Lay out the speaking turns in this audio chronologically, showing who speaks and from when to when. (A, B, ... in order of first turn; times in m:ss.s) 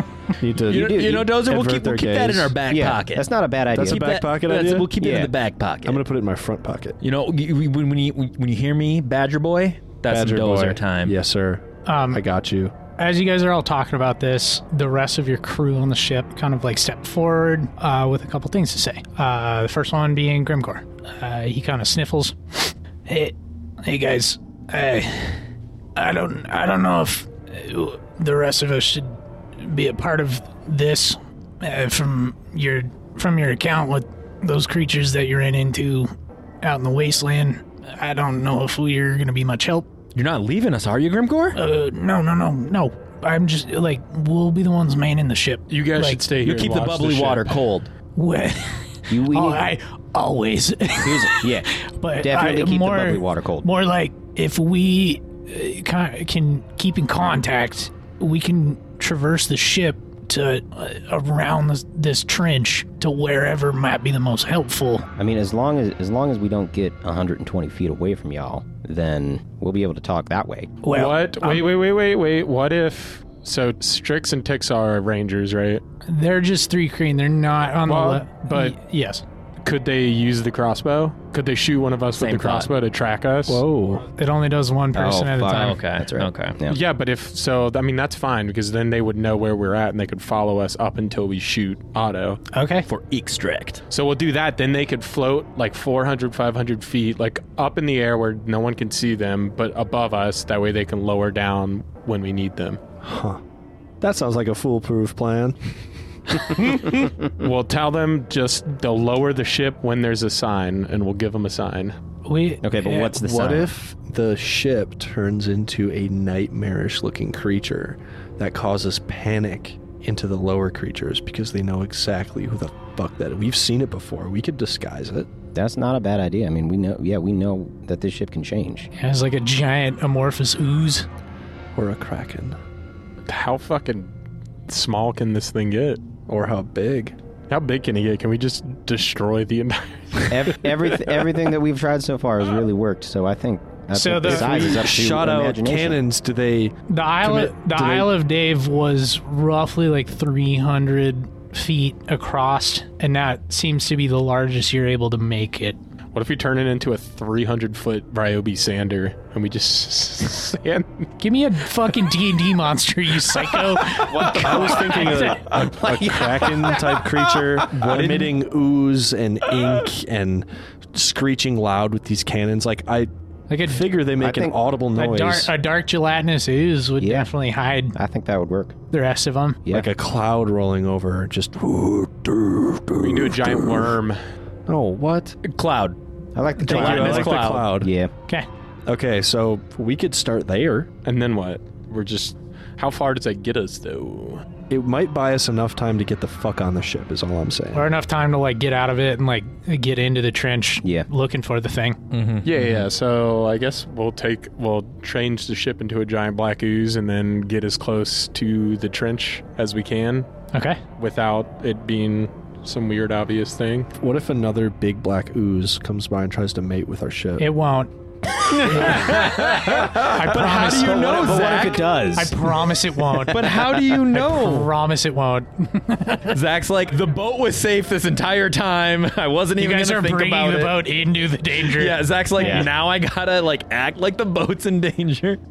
0:00.3-0:02.6 A
0:00.7-0:06.0 B
0:00.7-0:01.2 C
0:02.7-0:04.1 C
0:03.7-0:04.9 A
0:05.0-0:05.3 C
0:05.8-0:07.0 A
0:07.0-0:11.2 B
0:10.1-0:12.7 A
0:11.8-0:12.2 D
0:13.0-0:39.9 D
0:40.1-0:41.6 B
0:41.5-0:46.2 D
0:45.7-0:47.6 E
0:46.4-0:47.9 B
0:48.1-1:05.1 D
0:49.1-0:49.6 C
0:51.0-0:51.7 C
0:52.2-0:53.6 C
1:05.2-1:10.8 C
1:10.8-1:11.7 D
1:10.9-1:15.8 E
1:16.0-1:19.2 D
1:17.8-1:18.8 E
1:19.6-1:23.6 E
1:22.2-1:22.7 B
1:23.5-1:24.0 A
1:24.1-1:25.8 D
1:24.9-1:26.8 C
1:25.5-1:26.6 B
1:26.6-1:32.4 E
1:32.5-1:32.8 D
1:32.8-1:33.8 B
1:33.9-1:42.8 E
1:43.0-1:43.4 A
1:44.0-1:45.7 A
1:46.6-1:52.0 E
1:52.2-1:53.2 D
1:52.6-1:53.7 C
1:53.2-2:05.3 A
2:05.5-2:08.9 C
2:09.0-2:11.1 D
2:11.7-2:12.6 A
2:13.2-2:14.1 E
2:14.7-2:16.1 E
2:16.3-2:17.2 A
2:17.5-2:20.7 E
2:20.3-2:26.0 C
2:23.9-2:24.8 D
2:24.2-2:28.1 A
2:26.9-2:35.8 D
2:36.1-2:41.1 E
2:41.2-2:45.5 D
2:44.0-2:47.6 C
2:44.2-2:55.5 A
2:47.8-2:48.2 B
2:53.5-2:53.9 D
2:54.2-2:54.6 C
2:54.9-2:58.0 D
2:57.0-2:57.3 C
2:57.9-2:58.8 C
2:58.9-2:59.6 D
2:59.7-3:03.9 A
3:03.0-3:04.2 E
3:04.7-3:05.4 A
3:05.4-3:06.0 B
3:06.4-3:08.1 C
3:06.6-3:07.7 B
3:06.6-3:07.9 A
3:08.8-3:10.9 A
3:11.0-3:14.4 E
3:14.7-3:17.9 A
3:17.7-3:22.0 D
3:22.1-3:22.8 B
3:22.4-3:30.3 E
3:30.5-3:30.8 D
3:31.0-3:33.9 E
3:34.0-3:37.5 A
3:37.4-3:37.9 D
3:38.5-3:39.2 D
3:38.6-3:42.0 B
3:38.8-3:39.6 A
3:40.0-3:46.4 D
3:40.7-3:42.3 C
3:43.3-3:44.7 B
3:43.4-3:44.1 C
3:46.1-3:50.8 B
3:49.6-3:52.6 D
3:51.6-3:55.4 B
3:52.4-3:52.7 C